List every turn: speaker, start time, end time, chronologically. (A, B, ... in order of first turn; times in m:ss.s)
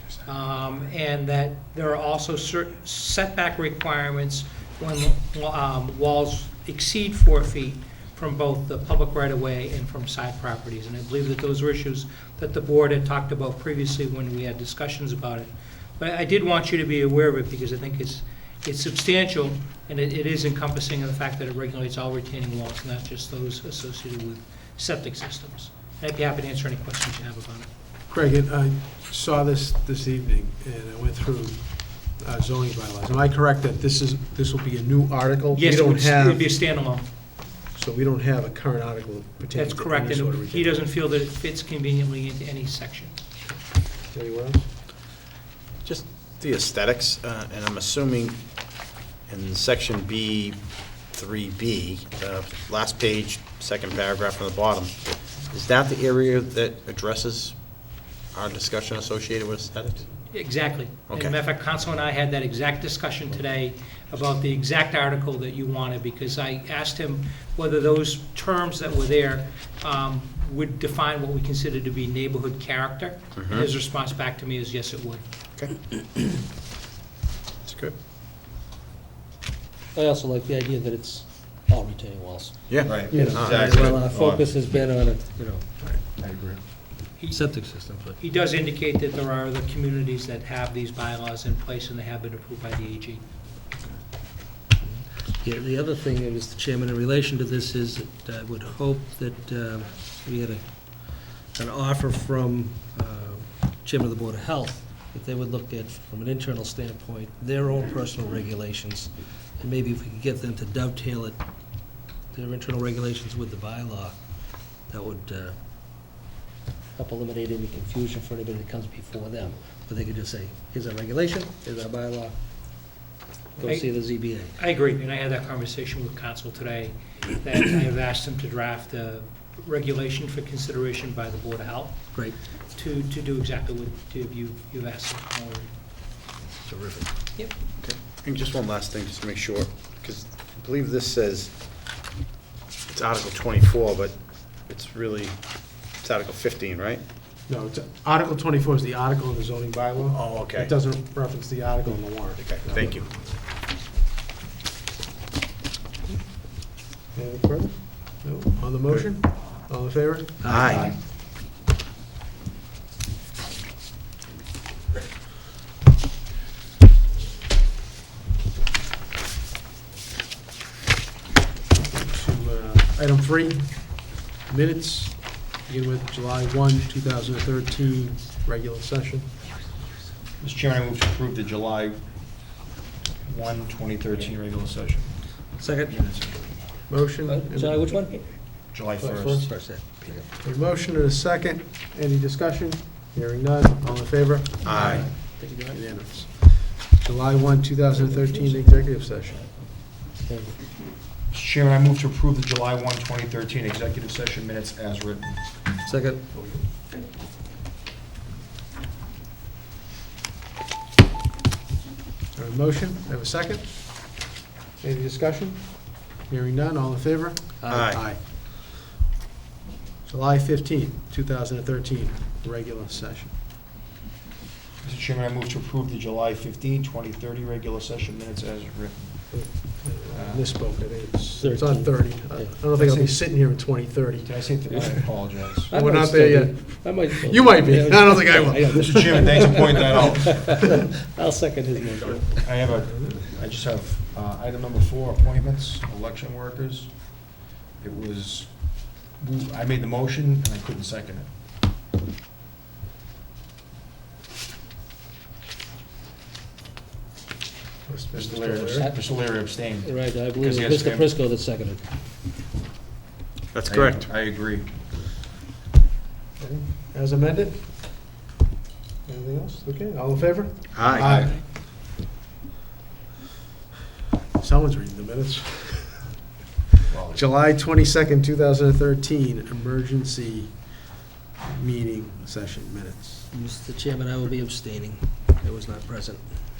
0:00.2-0:27.7 A
0:28.1-0:36.5 B
0:35.5-0:37.1 A
0:37.7-0:40.8 B
0:39.5-0:43.1 A
0:44.1-0:44.7 B
0:45.8-0:48.4 C
0:49.3-0:57.6 C
0:58.3-1:00.1 C
1:00.3-1:15.2 A
1:01.1-1:01.3 C
1:13.4-1:13.7 C
1:17.6-1:17.9 B
1:19.9-1:25.6 D
1:22.7-1:24.0 C
1:22.8-1:24.5 E
1:23.1-1:23.9 B
1:25.8-1:26.5 B
1:26.2-1:26.6 E
1:27.2-1:33.2 A
1:27.2-1:28.2 D
1:34.8-1:55.6 D
1:57.0-2:02.3 D
2:03.6-2:04.5 D
2:03.6-2:15.7 A
2:16.6-2:17.1 D
2:17.8-2:21.5 C
2:22.9-2:27.0 C
2:27.5-2:33.4 B
2:30.1-2:30.7 C
2:32.4-2:33.1 C
2:36.0-2:36.4 B
2:37.1-2:40.4 B
2:38.9-2:39.2 C
2:40.4-2:40.9 D
2:40.4-2:40.9 C
2:40.6-2:41.0 E
2:51.7-2:59.3 B
3:00.4-3:02.7 E
3:03.2-3:06.6 E
3:05.6-3:06.0 D
3:06.9-3:07.9 B
3:07.2-3:08.4 D
3:08.7-3:09.5 E
3:09.0-3:09.4 B
3:09.3-3:10.3 D
3:10.4-3:15.1 B
3:14.6-3:15.1 C
3:14.7-3:15.9 D
3:15.7-3:19.5 B
3:20.2-3:20.6 D
3:21.3-3:25.6 E
3:25.8-3:26.2 D
3:26.3-3:26.7 B
3:32.3-3:34.3 B
3:34.8-3:38.2 B
3:37.6-3:37.9 D
3:37.7-3:38.1 C
3:40.0-3:43.3 B
3:44.8-3:50.7 E
3:49.3-3:54.5 B
3:51.3-3:52.7 D
3:52.7-3:53.3 E
3:54.2-3:55.7 E
3:54.7-4:02.6 D
3:55.7-3:59.3 B
3:58.7-4:00.7 E
4:02.4-4:11.3 E
4:02.9-4:03.2 B
4:17.8-4:18.9 B
4:18.1-4:21.1 E
4:19.7-4:21.8 D
4:23.5-4:24.1 C
4:23.7-4:24.7 E
4:26.4-4:27.6 B
4:29.0-4:31.3 B
4:30.7-4:31.1 C
4:30.8-4:31.4 E
4:34.4-4:36.1 B
4:36.9-4:37.2 E
4:37.1-4:43.3 B
4:43.3-4:46.2 D